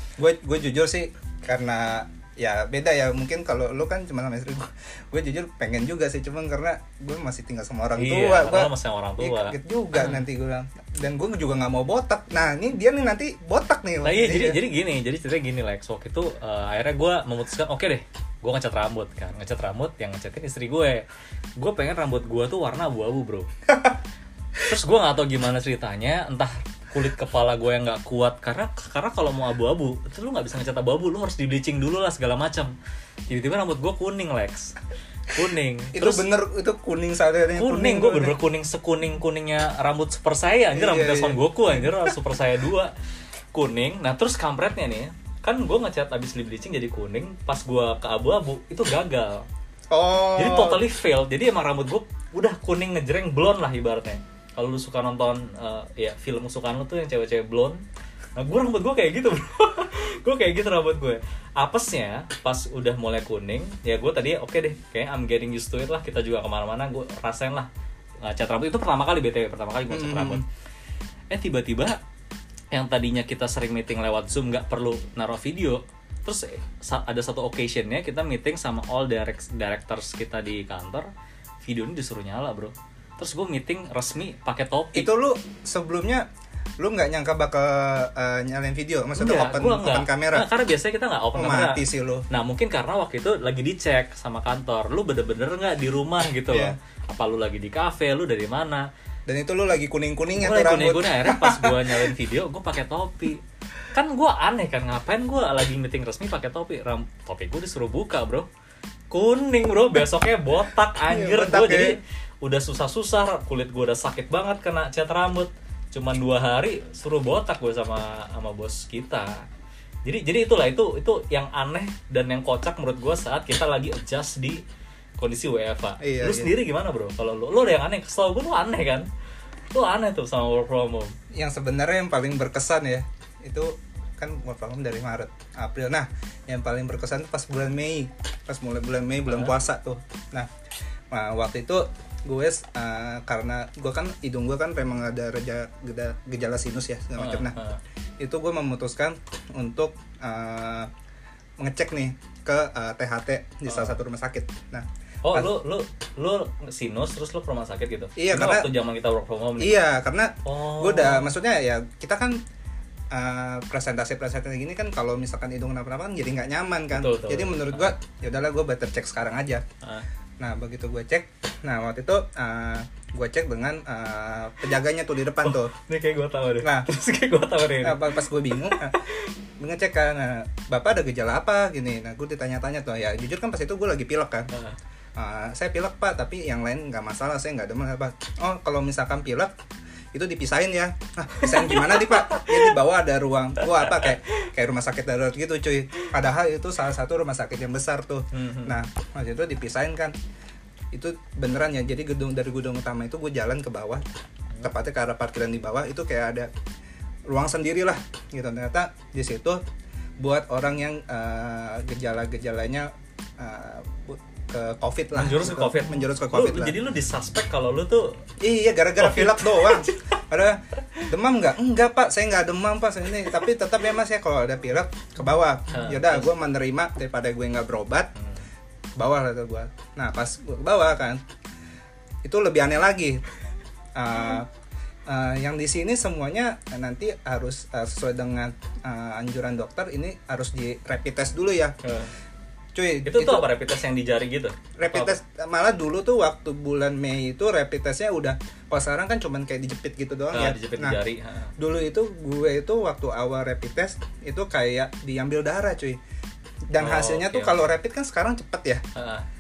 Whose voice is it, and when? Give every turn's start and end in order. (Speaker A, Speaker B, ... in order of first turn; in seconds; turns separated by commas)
Speaker A: 0.2-14.6, Speaker B: 8.0-10.2, Speaker B: 14.0-21.1, Speaker B: 21.6-23.5, Speaker B: 24.6-32.7, Speaker B: 33.3-34.8, Speaker B: 35.3-36.2, Speaker A: 35.9-38.4, Speaker B: 37.6-42.9, Speaker A: 40.7-42.1, Speaker B: 43.5-49.5, Speaker A: 49.9-50.8, Speaker B: 50.4-57.8, Speaker B: 58.4-67.7, Speaker B: 68.2-70.4, Speaker A: 69.9-70.5, Speaker B: 71.3-72.0, Speaker B: 72.7-81.1, Speaker B: 81.7-85.1, Speaker A: 85.0-86.3, Speaker A: 86.8-90.5, Speaker B: 89.2-98.9, Speaker A: 91.3-92.2, Speaker A: 96.5-96.8, Speaker A: 99.3-102.2, Speaker B: 100.4-108.5, Speaker B: 109.1-119.5, Speaker A: 111.1-112.0, Speaker B: 120.0-124.6, Speaker B: 125.2-129.1, Speaker A: 126.0-126.5, Speaker B: 129.7-131.2, Speaker A: 131.3-140.5, Speaker B: 139.3-139.5, Speaker A: 141.1-147.6, Speaker B: 147.2-147.8, Speaker A: 148.2-150.9, Speaker A: 151.6-155.5, Speaker B: 153.7-154.0, Speaker B: 155.2-159.8, Speaker A: 158.2-158.7, Speaker A: 159.6-162.4, Speaker B: 160.4-161.3, Speaker A: 163.1-169.6, Speaker B: 166.9-167.9, Speaker A: 170.4-175.7, Speaker B: 175.4-179.3, Speaker A: 176.6-176.9, Speaker A: 177.8-179.0, Speaker A: 179.6-184.5, Speaker A: 185.2-189.5, Speaker A: 190.1-200.2, Speaker B: 191.4-192.7, Speaker B: 193.8-194.1, Speaker B: 198.3-198.8, Speaker A: 200.9-204.1, Speaker A: 204.6-206.5, Speaker A: 207.3-209.6, Speaker A: 210.2-216.8, Speaker B: 215.1-218.2, Speaker A: 218.4-228.1, Speaker B: 219.0-220.2, Speaker B: 225.7-226.3, Speaker A: 229.0-231.2, Speaker A: 232.2-233.2, Speaker A: 233.9-234.5, Speaker A: 235.1-241.8, Speaker B: 241.8-242.1, Speaker A: 242.8-243.5, Speaker B: 243.1-245.2, Speaker A: 244.8-251.0, Speaker B: 250.3-251.5, Speaker A: 251.6-256.0, Speaker A: 256.7-258.8, Speaker B: 256.8-257.7, Speaker B: 258.9-259.2